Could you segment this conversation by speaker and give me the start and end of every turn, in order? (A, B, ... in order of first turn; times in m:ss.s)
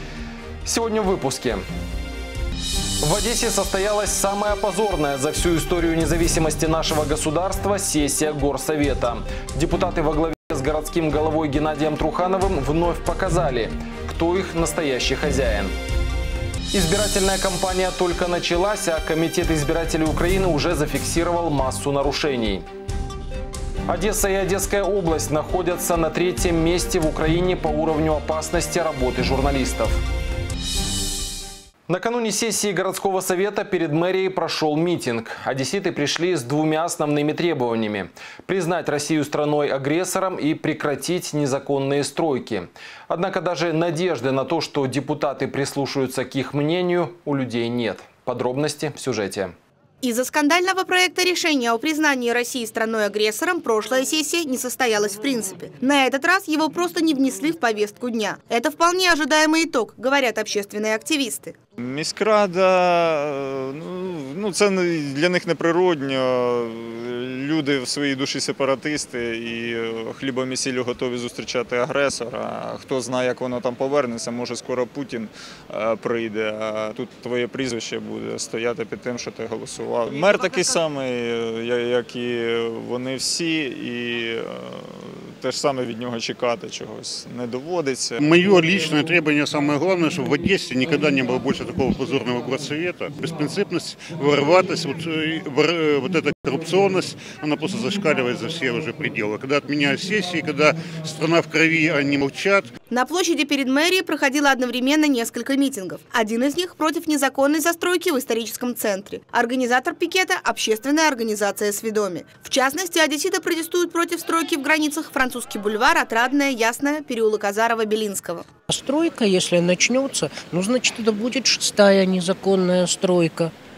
0:00.6-0:01.6 A
0:03.0-0:15.7 A
0:16.7-0:22.6 A
0:23.9-0:30.0 A
0:31.9-0:49.5 A
0:50.0-1:01.6 B
1:01.8-1:28.2 C
1:28.2-1:42.7 D
1:42.9-1:58.4 B
1:58.7-2:03.5 E